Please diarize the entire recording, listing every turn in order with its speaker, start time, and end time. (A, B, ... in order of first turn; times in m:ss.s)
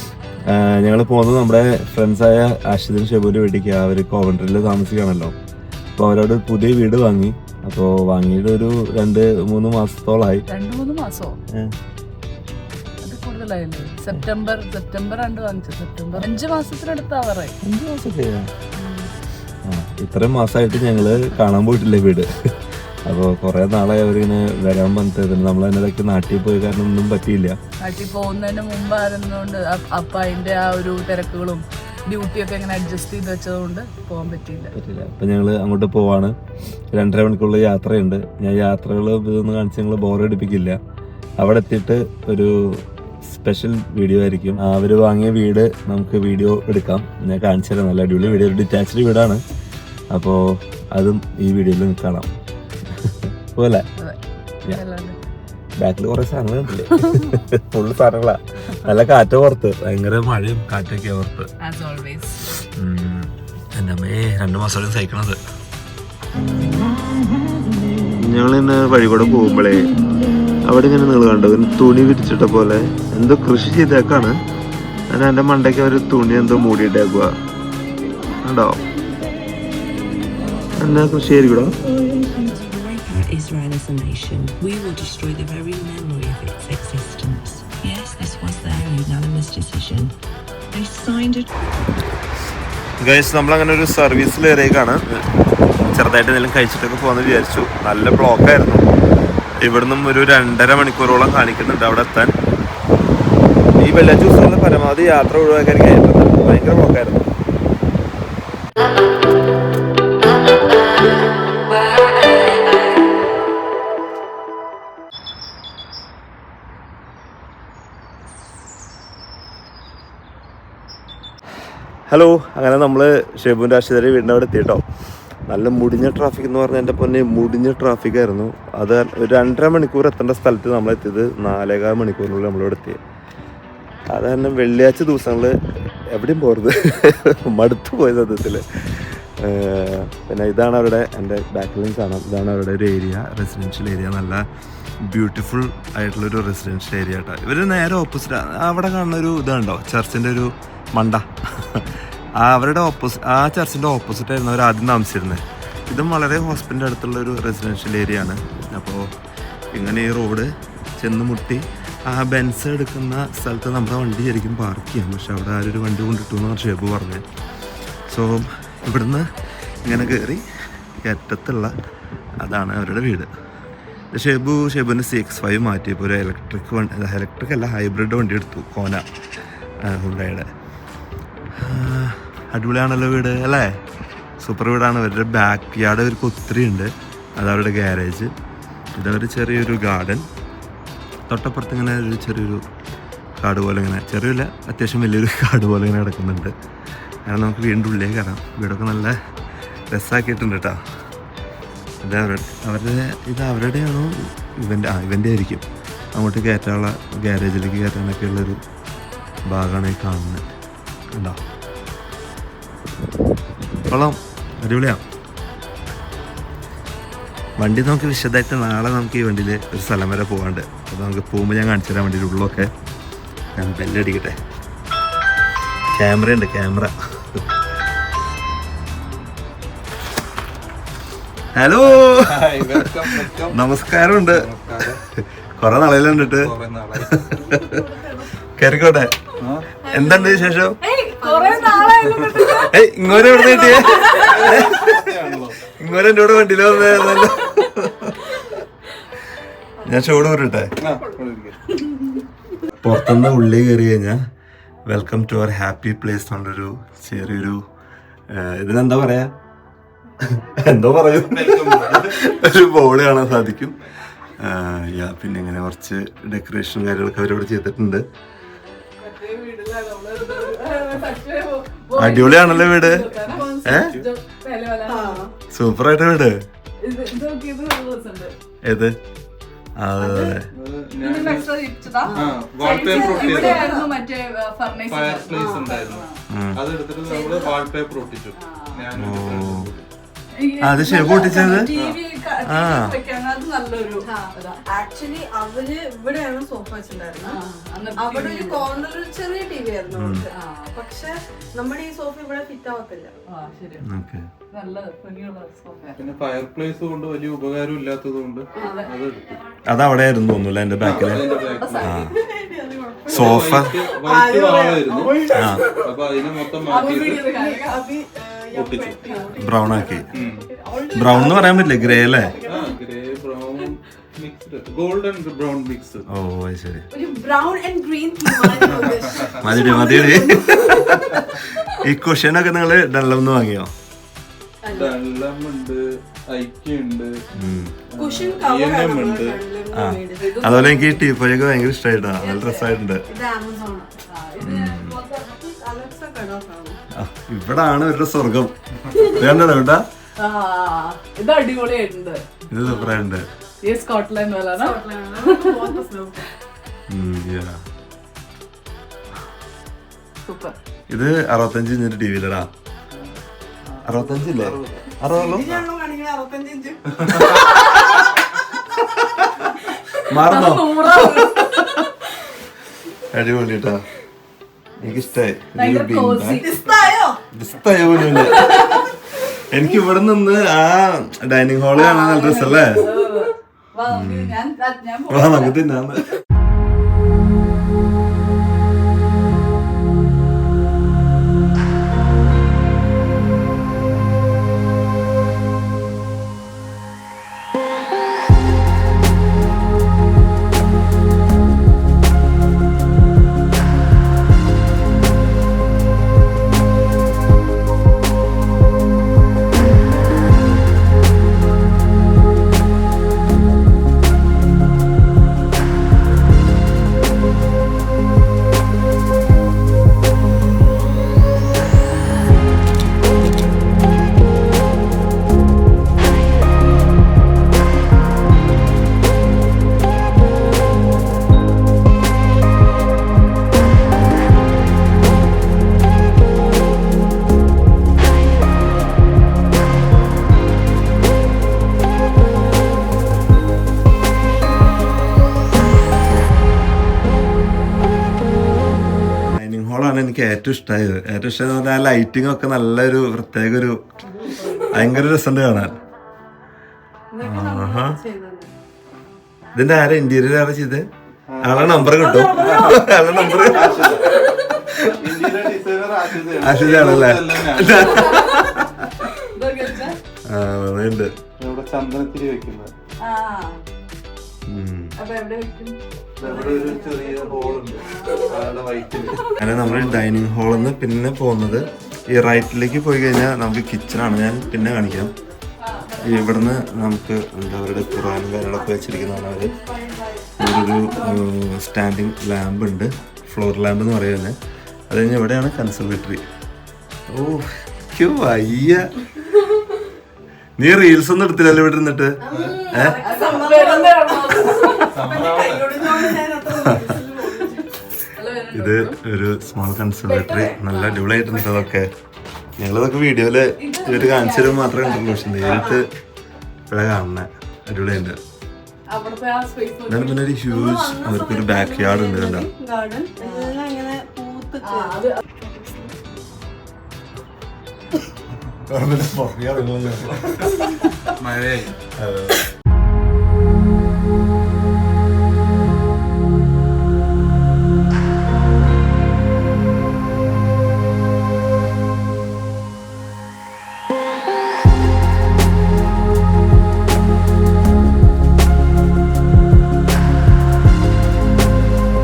0:00.5-0:05.3 A
0:06.0-0:10.4 A
0:10.5-0:11.4 B
0:13.0-0:17.5 B
0:17.6-0:18.5 A
0:18.8-0:19.1 B
0:19.6-0:22.3 A
0:23.0-0:27.6 A
0:27.8-0:34.7 B
0:34.7-0:36.4 A
0:36.9-0:40.8 A
0:41.4-0:49.4 A
0:50.1-0:52.3 A
0:52.9-0:53.8 A
0:54.0-0:55.2 B
0:55.8-1:01.5 A
1:01.6-1:02.6 B
1:02.6-1:05.4 A
1:08.2-1:10.0 A
1:10.6-1:14.4 A
1:15.1-1:17.3 A
1:18.4-1:18.8 A
1:20.8-1:21.8 A
1:22.1-1:30.1 C
1:30.7-1:31.5 C
1:33.0-1:35.2 A
1:35.8-1:38.9 A
1:39.6-1:42.3 A
1:43.8-1:47.3 A
2:02.1-2:04.8 A
2:05.5-2:13.0 A
2:14.1-2:15.6 A
2:16.1-2:24.4 A
2:25.0-2:39.1 A
2:39.7-2:47.2 A
2:48.1-2:49.2 A
2:49.8-2:50.4 A
2:51.0-2:51.7 A
2:52.4-2:53.3 A
2:54.1-2:59.0 A
2:59.8-3:00.5 A
3:01.6-3:03.8 A
3:04.4-3:08.3 A
3:08.9-3:10.3 A
3:11.3-3:12.6 A
3:13.4-3:16.5 A
3:17.2-3:19.1 A
3:19.9-3:20.8 A
3:22.0-3:28.6 A
3:29.5-3:30.4 A
3:31.1-3:31.4 A
3:33.9-3:35.0 A
3:37.6-3:42.7 A
3:43.6-3:44.4 A
3:45.9-3:47.4 A
3:51.5-3:54.5 A
3:51.8-3:53.6 D
3:54.2-3:55.0 D
3:55.1-3:57.8 A
3:56.1-3:57.3 D
3:57.3-3:58.3 E
3:58.5-3:59.2 A
3:59.4-3:59.7 D
3:59.8-4:02.7 E
3:59.9-4:00.8 A
4:00.8-4:04.4 B
4:02.6-4:05.1 A
4:03.3-4:04.3 E
4:04.0-4:05.6 D
4:05.7-4:08.5 A
4:06.8-4:07.1 D
4:09.8-4:10.7 A
4:10.8-4:11.8 D
4:12.8-4:14.2 A
4:14.8-4:17.6 A
4:18.3-4:19.3 A
4:20.2-4:23.8 A
4:21.2-4:22.3 D
4:24.3-4:28.0 A
4:29.0-4:35.2 B
4:32.0-4:33.1 A
4:33.2-4:34.0 D
4:33.6-4:34.0 A
4:34.9-4:35.3 E
4:35.5-4:36.4 A
4:36.8-4:38.3 B
4:38.6-4:39.0 A
4:39.8-4:40.5 A
4:40.0-4:40.4 E
4:40.5-4:41.5 D
4:41.0-4:46.2 B
4:42.0-4:43.9 E
4:42.1-4:43.7 D
4:44.9-4:49.8 D
4:45.3-4:45.7 E
4:46.3-4:46.6 A
4:47.0-4:47.6 E
4:48.4-4:48.8 B
4:48.9-4:49.7 A
4:50.3-4:54.6 B
4:50.6-4:51.7 A
4:51.1-4:51.7 E
4:51.7-4:52.0 D
4:52.4-4:53.0 A
4:54.0-4:57.4 E
4:57.2-4:58.7 B
4:58.0-5:03.2 E
4:59.9-5:00.3 A
5:00.3-5:00.7 B
5:03.3-5:03.9 B
5:03.8-5:04.3 A
5:04.5-5:06.0 B
5:06.0-5:09.4 D
5:08.6-5:08.8 E
5:08.6-5:08.9 B
5:09.6-5:12.2 A
5:10.8-5:11.9 D
5:11.3-5:22.8 E
5:11.5-5:12.1 B
5:13.1-5:17.3 D
5:13.1-5:13.7 A
5:15.3-5:15.6 A
5:16.7-5:17.8 B
5:18.5-5:19.1 D
5:19.4-5:20.1 A
5:20.1-5:20.5 D
5:20.9-5:22.3 A
5:22.4-5:26.0 D
5:26.1-5:26.9 A
5:26.9-5:31.2 E
5:28.5-5:29.3 D
5:29.4-5:33.7 A
5:34.6-5:35.0 E
5:34.7-5:37.1 D
5:37.3-5:37.8 A
5:37.9-5:39.4 D
5:38.0-5:40.4 E
5:39.7-5:43.0 A
5:40.2-5:41.1 B
5:42.2-5:42.8 B
5:43.0-5:43.9 E
5:44.1-5:45.3 B
5:44.4-5:45.0 A
5:45.1-5:46.8 E
5:46.9-5:49.8 A
5:50.2-5:52.2 B
5:52.5-5:53.3 A
5:52.6-5:53.0 E
5:53.6-5:55.7 B
5:54.6-5:56.2 E
5:56.9-5:57.6 A
6:00.2-6:00.6 B
6:00.9-6:02.5 A
6:02.9-6:05.0 D
6:03.8-6:05.5 A
6:05.1-6:07.7 E
6:07.4-6:07.8 B
6:10.1-6:11.8 A
6:10.2-6:11.4 B
6:13.1-6:13.8 A
6:14.8-6:16.5 A
6:15.5-6:16.6 B
6:16.4-6:17.2 E
6:17.3-6:18.8 A
6:18.1-6:18.8 B
6:19.4-6:22.9 A
6:21.8-6:23.3 E
6:22.0-6:25.6 B
6:23.9-6:24.4 A
6:25.1-6:26.2 A
7:29.3-7:33.8 A
7:34.2-7:34.6 E
7:34.7-7:35.8 A
7:37.1-7:38.5 E
7:37.2-7:38.0 A
7:39.5-7:40.9 A
7:41.3-7:44.2 D
7:41.4-7:44.1 A
7:42.1-7:44.2 E
7:44.6-7:44.9 A
7:44.8-7:48.2 D
7:46.3-7:48.8 A
7:47.7-7:50.0 B
7:50.2-7:51.1 A
7:51.4-7:52.7 D
7:53.0-7:53.6 B
7:54.4-7:54.9 A
7:55.0-7:55.8 B
7:56.2-8:00.1 D
7:56.2-7:58.5 E
7:57.8-7:58.5 B
7:59.4-8:05.1 A
8:01.7-8:02.0 E
8:02.8-8:05.4 E
8:05.6-8:06.9 B
8:06.0-8:09.5 A
8:07.7-8:11.3 E
8:10.4-8:14.4 A
8:14.9-8:16.2 A
8:17.1-8:18.9 A
8:20.6-8:23.0 A
8:22.2-8:27.7 E
8:22.3-8:22.6 D
8:23.0-8:25.2 B
8:24.9-8:26.2 D
8:28.1-8:29.0 B
8:28.5-8:31.9 A
8:30.0-8:31.2 B
8:32.6-8:35.9 A
8:33.6-8:35.6 B
8:35.4-8:35.7 D
8:35.4-8:35.8 E
8:36.7-8:38.2 A
8:38.9-8:40.2 B
8:39.9-8:42.5 A
8:40.5-8:46.0 E
8:43.2-8:43.5 B
8:44.6-8:45.2 B
8:48.7-8:51.0 A
8:51.2-8:51.8 D
8:51.9-8:52.4 A